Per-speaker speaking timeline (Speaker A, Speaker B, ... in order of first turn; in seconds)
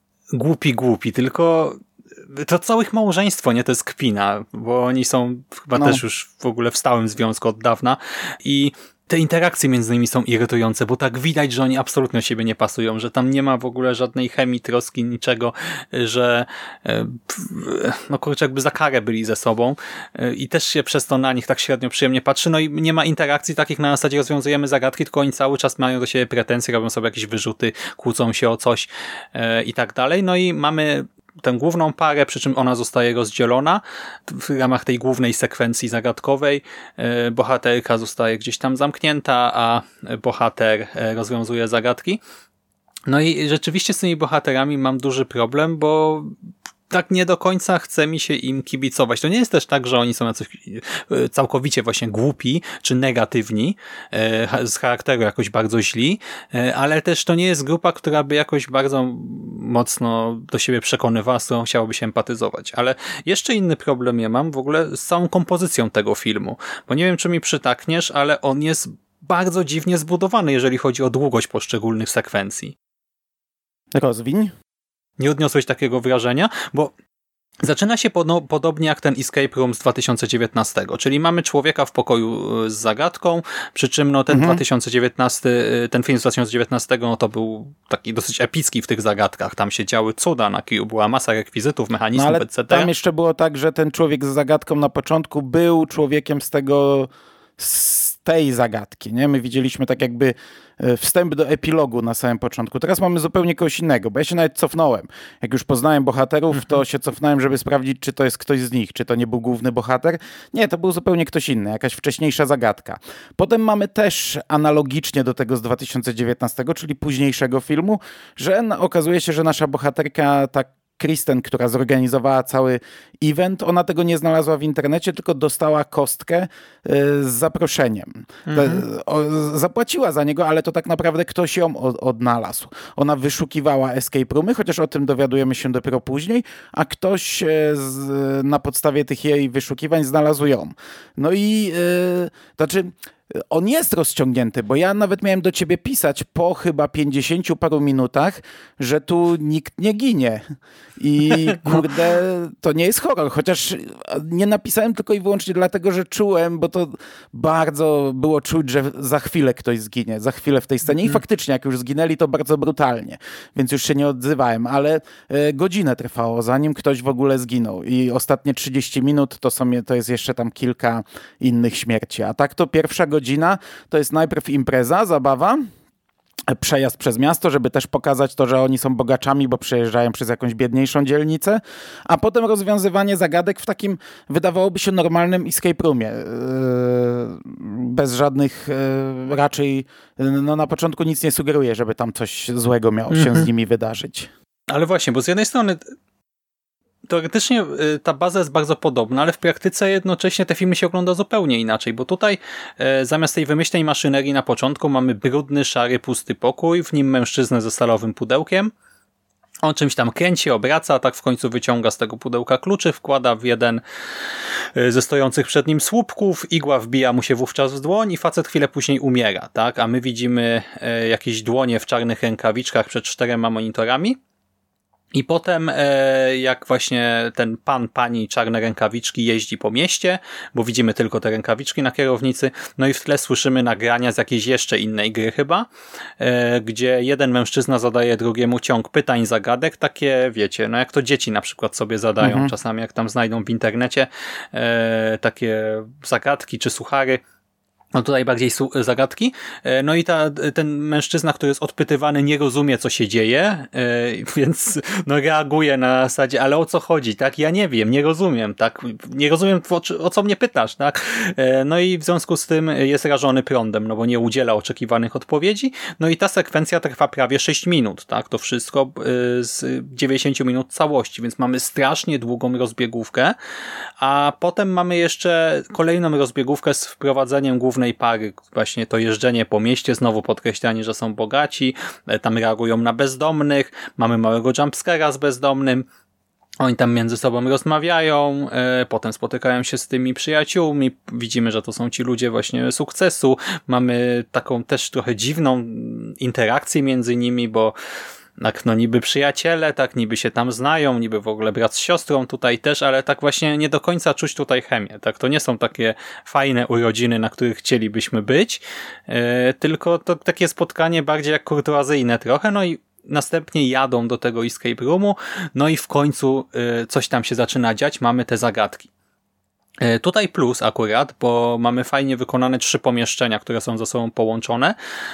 Speaker A: 0.3-42.2, 43.1-46.3, 46.9-72.7, 75.2-76.9, 77.6-92.9, 106.5-106.8, 128.5-128.8, 151.3-151.8, 193.1-193.5, 194.7-195.9, 197.1-208.7, 209.6-213.8, 214.7-224.2, 225.1-235.7, 236.2-247.2, 247.9-273.4, 274.0-285.9, 286.6-297.7, 298.4-318.9, 319.8-324.8
Speaker B: 5.8-6.0, 73.9-74.5, 84.3-84.6, 92.1-150.4, 151.0-175.6, 176.5-194.3, 242.2-242.5